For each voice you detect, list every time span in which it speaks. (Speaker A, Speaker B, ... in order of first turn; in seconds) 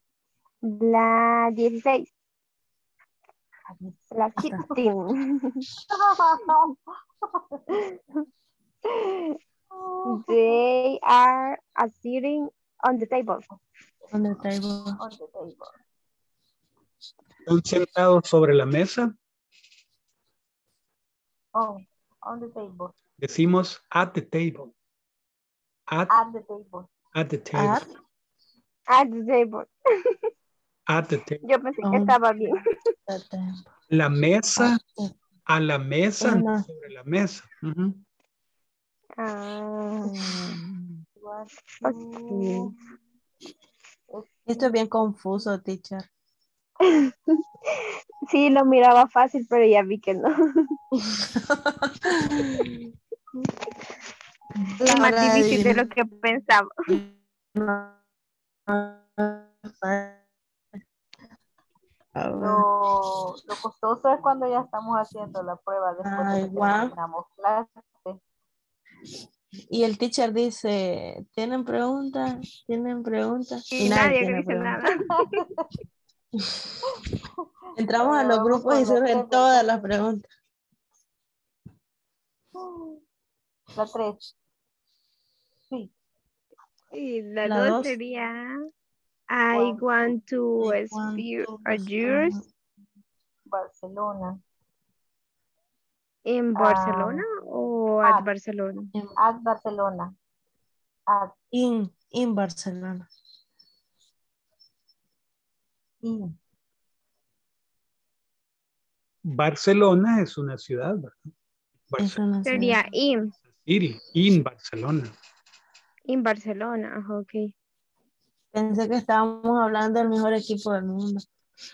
Speaker A: 0.6-2.1, 4.1-5.7, 10.1-13.4, 28.9-29.7, 31.5-32.6, 39.2-40.3, 48.3-50.4, 54.8-56.7, 73.7-74.9, 86.9-88.5, 89.3-92.4, 96.3-98.9, 112.5-113.3, 116.1-117.5
Speaker B: 5.9-6.7, 9.8-10.4, 15.0-15.7, 21.6-22.9, 26.1-26.9, 41.2-42.7, 44.1-44.7, 62.3-68.2, 77.9-79.9, 82.6-82.9, 83.8-84.2, 89.5-89.9, 93.5-94.3, 96.6-97.2, 99.2-100.1, 106.0-106.3
Speaker C: 14.1-14.9, 31.9-32.1, 33.1-33.4, 36.2-36.6, 44.5-46.0, 54.8-55.8, 58.8-60.1, 62.2-62.6, 66.0-66.9, 69.7-74.8, 77.8-80.2, 87.5-87.9, 90.6-92.3, 101.5-103.0, 112.0-112.7, 118.5-121.2
Speaker D: 17.5-19.1, 23.2-24.7, 25.9-26.2, 27.1-27.8, 30.9-31.5, 33.9-34.8, 35.5-38.0, 109.3-111.2, 111.9-112.2, 113.7-115.1